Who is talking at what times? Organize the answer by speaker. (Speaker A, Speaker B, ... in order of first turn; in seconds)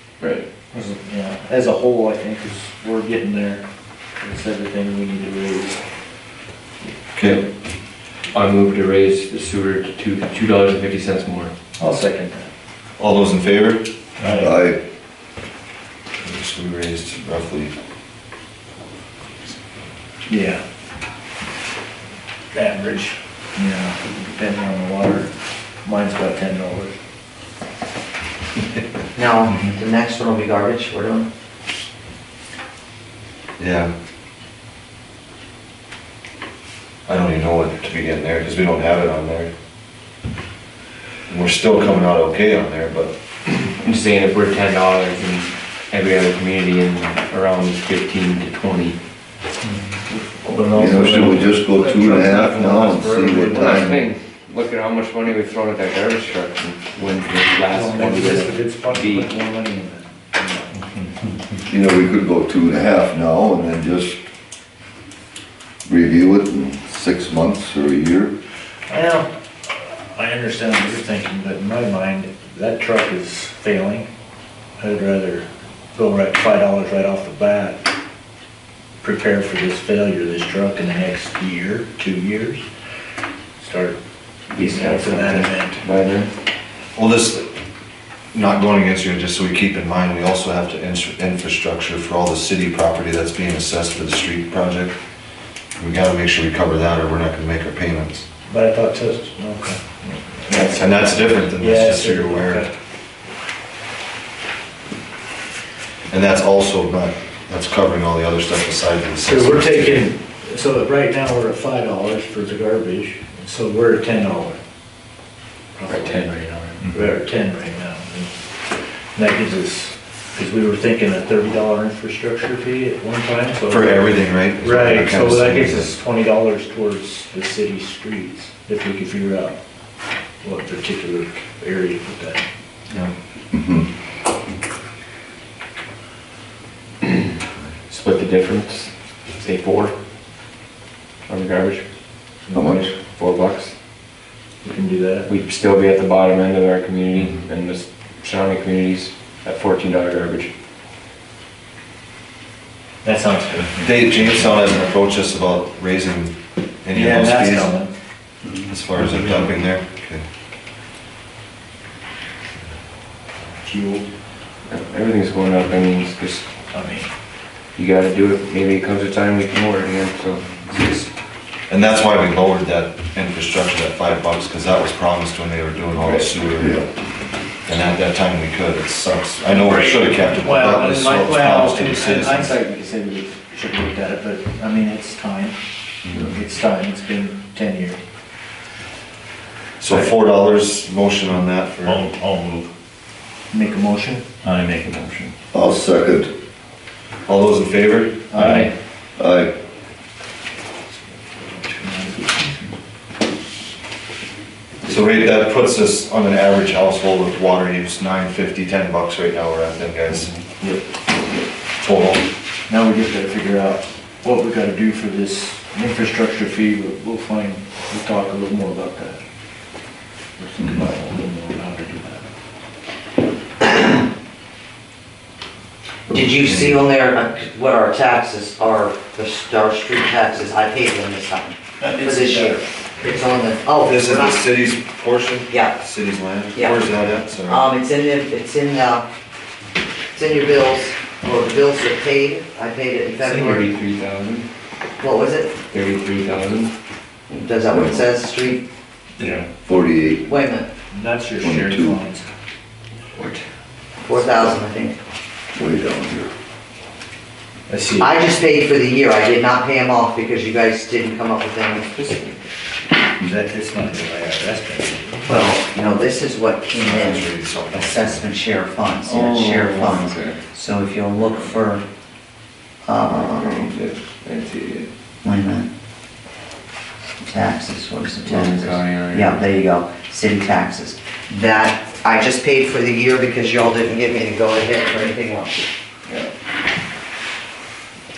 Speaker A: 0.2-0.5, 8.3-11.5, 43.5-49.0, 52.2-59.3, 84.5-86.3, 115.9-116.4, 137.9-139.9, 141.3-141.8, 142.5-143.8, 145.3-150.5, 164.7-166.4, 167.8-171.1, 175.9-176.5, 198.4-198.7, 243.2-244.5, 245.7-246.7, 253.1-253.4, 261.9-262.4, 269.0-270.4, 271.2-271.5, 273.0-274.9, 278.2-279.4
Speaker B: 0.7-3.6, 4.2-5.8, 11.8-12.5, 14.2-14.5, 20.3-20.6, 22.5-25.3, 25.9-27.0, 50.5-51.0, 53.0-53.6, 57.7-60.8, 68.9-74.1, 74.8-77.9, 79.0-82.7, 83.6-84.0, 84.5-85.8, 98.5-102.7, 109.2-114.6, 115.8-118.3, 119.2-129.6, 130.4-132.5, 142.4-142.8, 144.6-145.3, 153.0-153.8, 156.9-157.9, 163.6-164.1, 166.7-167.1, 179.4-185.6, 186.2-188.0, 193.5-194.4, 198.3-198.7, 201.4-202.8, 210.6-210.9, 212.7-219.2, 220.4-222.3, 231.8-232.6, 250.9-252.3, 257.7-258.2, 263.2-265.4
Speaker C: 7.2-7.4, 13.0-13.9, 16.2-17.7, 33.6-33.9, 37.1-39.5, 41.3-43.1, 87.0-87.5, 88.3-95.0, 95.8-98.2, 100.7-102.7, 106.1-110.0, 123.7-125.9, 153.8-157.7, 158.7-160.2, 171.7-176.8, 177.7-182.5, 189.8-192.1, 197.3-198.2, 204.9-210.3, 211.8-212.3, 226.4-226.8, 233.8-237.7, 266.8-268.3
Speaker D: 14.4-14.8, 50.7-54.0, 61.7-64.2, 65.9-68.3, 133.5-133.9, 142.5-142.9, 176.6-176.9, 195.5-196.3, 199.2-199.6, 247.7-248.0, 249.7-250.3, 251.4-252.0, 255.6-256.3
Speaker E: 29.1-31.3, 223.6-224.1, 226.1-234.4, 235.5-235.8, 236.5-236.8, 237.5-239.1, 240.1-243.7, 245.0-245.6, 247.3-248.7, 250.3-250.7, 254.1-255.0, 258.0-261.9, 265.3-271.8, 272.9-273.7, 275.2-275.7, 277.2-285.6
Speaker F: 51.0-51.4, 191.8-192.7, 194.4-195.3